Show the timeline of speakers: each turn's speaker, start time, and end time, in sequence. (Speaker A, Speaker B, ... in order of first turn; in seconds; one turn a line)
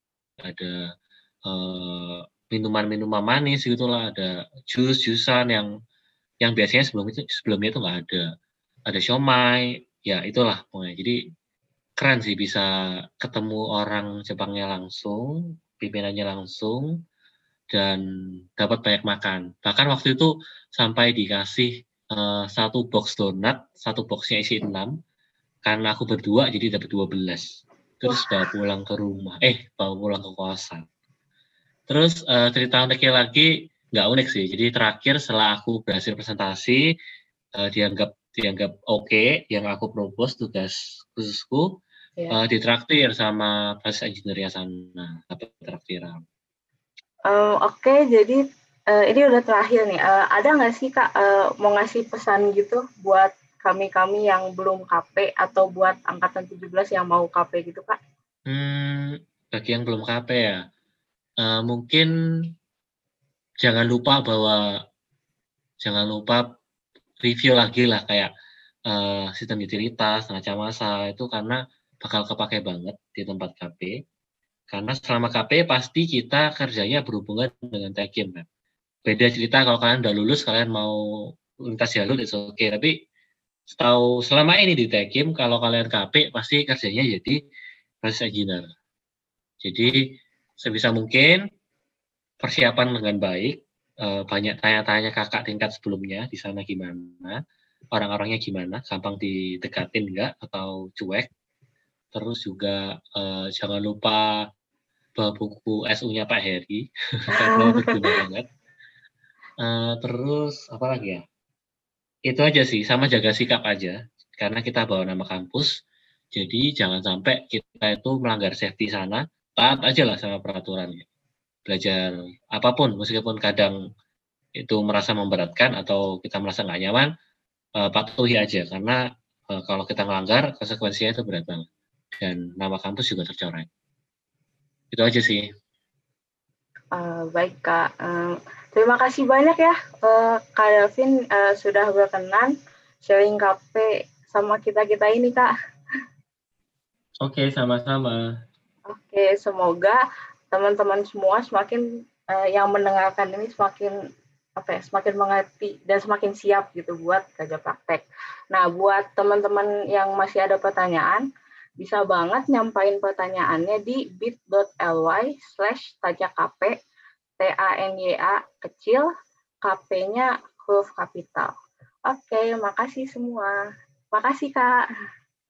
Speaker A: 0.4-0.9
Speaker A: 1.4-5.7
Speaker A: 6.4-8.3
Speaker A: 8.9-11.2
Speaker A: 12.0-12.7
Speaker A: 13.2-16.9
Speaker A: 17.7-18.0
Speaker A: 18.6-24.9
Speaker A: 25.6-30.8
Speaker A: 31.9-36.8
Speaker A: 37.5-41.7
Speaker A: 42.3-46.2
Speaker B: 47.3-58.0
Speaker A: 58.5-60.6
Speaker A: 61.4-62.1
Speaker A: 63.6-64.7
Speaker A: 65.8-66.4
Speaker A: 67.2-68.3
Speaker A: 68.9-73.9
Speaker A: 74.7-78.5
Speaker A: 79.0-82.9
Speaker A: 83.7-87.4
Speaker A: 88.0-88.7
Speaker A: 89.6-91.4
Speaker A: 92.4-97.4
Speaker A: 97.9-101.3
Speaker A: 102.1-104.4
Speaker A: 105.2-108.5
Speaker B: 107.4-108.2
Speaker A: 109.6-111.2
Speaker A: 112.3-115.7
Speaker A: 116.3-121.0
Speaker A: 121.7-123.8
Speaker A: 124.6-127.1
Speaker A: 127.8-131.7
Speaker A: 132.2-133.7
Speaker A: 134.9-135.4
Speaker B: 136.9-142.5
Speaker B: 143.0-145.5
Speaker A: 147.2-148.3
Speaker B: 148.9-153.9
Speaker B: 154.6-161.2
Speaker B: 161.8-166.8
Speaker B: 167.4-169.1
Speaker B: 169.6-171.5
Speaker B: 172.1-173.5
Speaker B: 174.1-174.8